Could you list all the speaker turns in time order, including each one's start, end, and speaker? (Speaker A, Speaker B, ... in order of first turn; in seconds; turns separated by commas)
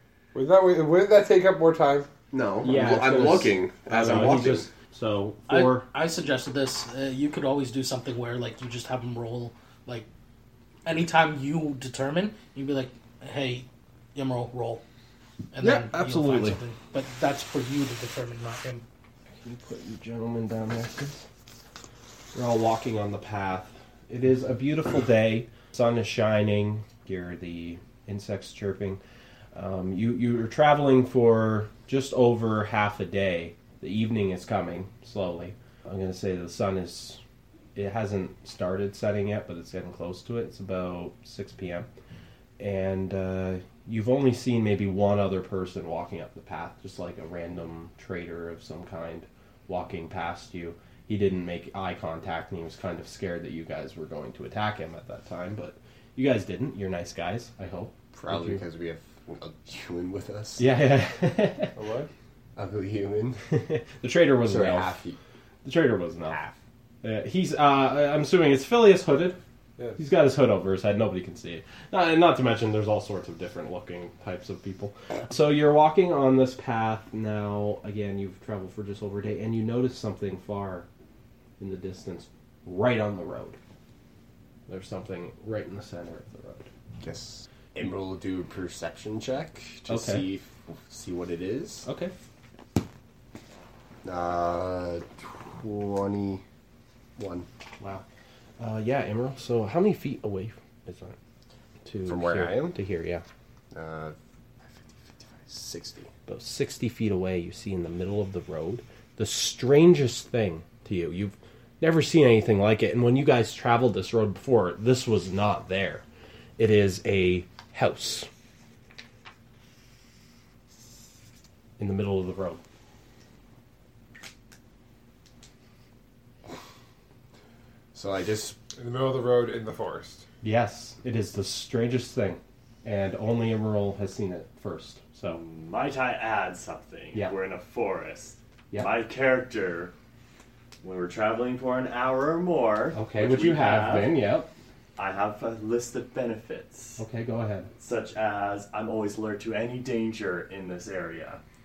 Speaker A: 0.3-2.1, Speaker B: 2.3-4.7, Speaker C: 2.6-5.8, Speaker D: 5.5-10.1, Speaker D: 10.8-14.8, Speaker D: 15.5-18.8, Speaker C: 15.6-16.6, Speaker C: 19.4-21.2, Speaker C: 22.3-29.0, Speaker C: 29.5-37.2, Speaker C: 37.7-41.9, Speaker C: 42.6-58.6, Speaker B: 58.1-60.6, Speaker C: 60.6-61.7, Speaker A: 61.7-62.1, Speaker B: 62.5-63.4, Speaker C: 63.5-65.0, Speaker B: 64.4-65.2, Speaker C: 65.6-66.4, Speaker B: 66.3-66.6, Speaker C: 67.0-69.4, Speaker A: 69.8-70.0, Speaker C: 70.0-80.9, Speaker C: 81.6-83.6, Speaker C: 84.7-86.7, Speaker B: 87.0-91.9, Speaker C: 89.9-90.2, Speaker C: 91.8-92.1, Speaker B: 94.0-96.4, Speaker B: 97.2-97.5, Speaker C: 97.8-98.0, Speaker C: 98.6-101.2, Speaker C: 101.8-103.2, Speaker B: 102.0-102.8, Speaker B: 103.7-104.2, Speaker B: 105.2-106.1, Speaker C: 106.2-116.0, Speaker C: 116.6-118.3, Speaker C: 121.8-122.6, Speaker B: 127.9-128.6, Speaker A: 128.8-130.2, Speaker C: 130.4-135.4, Speaker E: 135.3-139.9, Speaker E: 140.8-144.2, Speaker C: 142.9-144.5, Speaker E: 145.0-147.0, Speaker C: 147.0-147.7, Speaker E: 147.8-151.4